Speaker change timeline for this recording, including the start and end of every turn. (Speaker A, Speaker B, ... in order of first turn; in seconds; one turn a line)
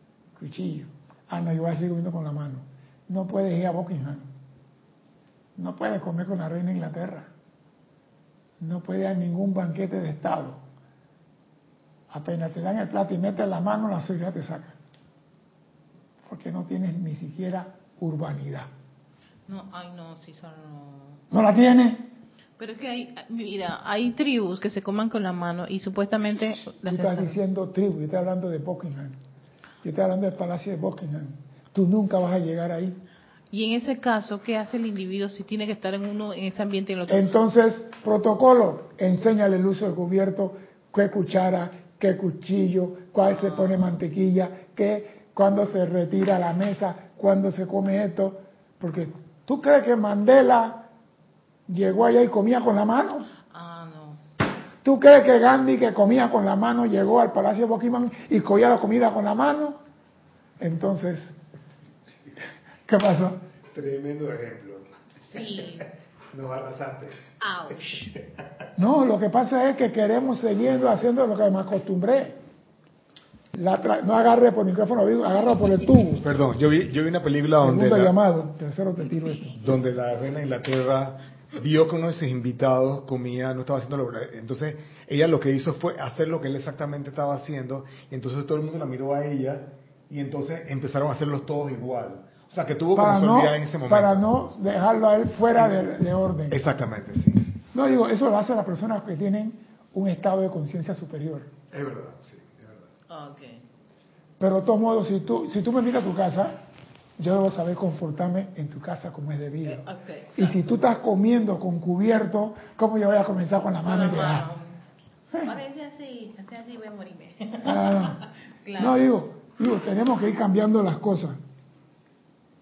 Speaker A: 0.3-4.2
Speaker A: 5.6-7.3
Speaker A: 8.6-10.6
Speaker A: 12.1-14.8
Speaker A: 16.2-18.7
Speaker B: 19.5-21.2
Speaker A: 21.3-22.1
Speaker B: 22.6-27.4
Speaker A: 26.8-29.2
Speaker A: 29.8-33.0
Speaker B: 33.5-37.3
Speaker A: 37.1-50.9
Speaker A: 51.7-53.3
Speaker B: 53.5-54.2
Speaker A: 54.8-59.8
Speaker A: 60.6-61.4
Speaker A: 62.9-63.4
Speaker C: 63.7-67.2
Speaker B: 65.3-65.8
Speaker B: 67.4-68.0
Speaker C: 67.9-68.2
Speaker A: 68.8-72.4
Speaker A: 73.5-76.2
Speaker C: 76.2-78.1
Speaker A: 77.6-79.6
Speaker C: 79.5-94.3
Speaker A: 92.9-96.6
Speaker C: 96.5-97.5
Speaker A: 97.7-101.5
Speaker C: 101.7-102.8
Speaker B: 103.1-103.6
Speaker A: 104.4-106.6
Speaker A: 107.2-114.5
Speaker B: 109.7-110.4
Speaker B: 113.8-114.8
Speaker B: 115.4-119.0
Speaker A: 117.6-118.2
Speaker A: 118.8-121.4